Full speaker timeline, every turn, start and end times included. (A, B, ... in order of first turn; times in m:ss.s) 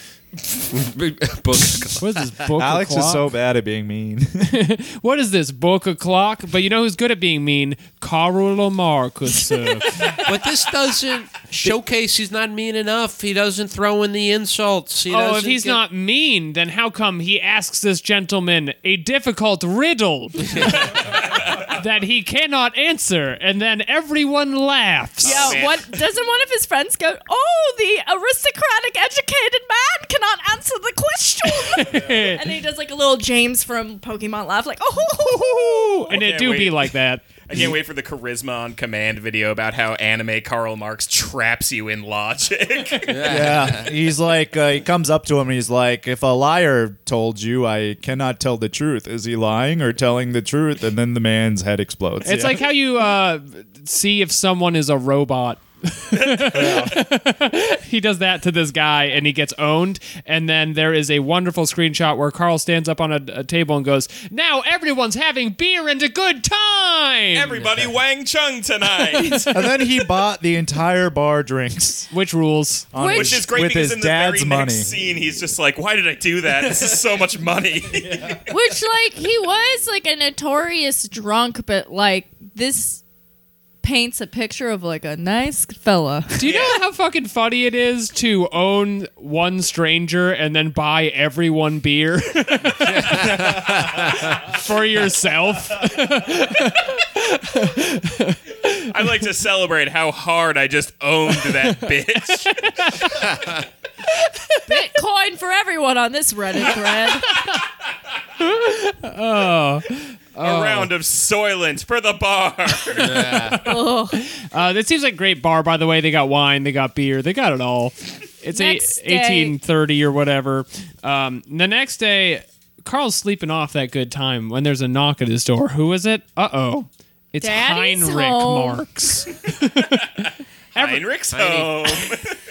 0:00.7-0:02.5 A
0:02.0-0:03.3 B
0:02.6-0:04.5 C
0:04.4-0:10.1 B
0:10.1-0:15.8 A
0:15.1-0:21.0 B
0:20.5-0:20.8 A
0:21.1-0:21.4 D
0:21.6-0:25.6 B
0:25.2-0:36.2 E
0:25.2-0:26.0 D
0:31.4-0:32.4 B
0:35.2-0:37.3 B
0:36.1-0:43.6 D
0:43.1-0:43.9 A
0:43.2-0:52.6 C
0:52.2-1:07.6 B
0:56.3-0:56.8 D
0:56.5-0:56.9 C
1:07.4-1:09.5 D
1:07.6-1:07.9 A
1:09.2-1:09.6 B
1:09.5-1:12.1 C
1:12.1-1:12.9 B
1:12.9-1:15.0 C
1:13.0-1:13.4 E
1:13.0-1:18.4 D
1:18.5-1:23.0 E
1:23.8-1:26.5 E
1:26.4-1:39.0 B
1:26.4-1:26.8 D
1:32.7-1:34.5 A
1:38.9-1:43.1 D
1:41.4-1:43.4 B
1:43.1-1:43.6 A
1:44.2-1:44.9 B
1:44.7-1:47.4 E
1:47.2-1:47.6 B
1:48.4-1:50.9 B
1:50.4-1:53.6 D
1:53.0-1:53.6 A
1:53.1-2:10.2 B
1:53.6-1:54.2 E
1:58.5-1:59.6 E
2:07.4-2:08.9 E
2:10.8-2:11.1 B
2:10.8-2:12.4 D
2:11.3-2:12.1 A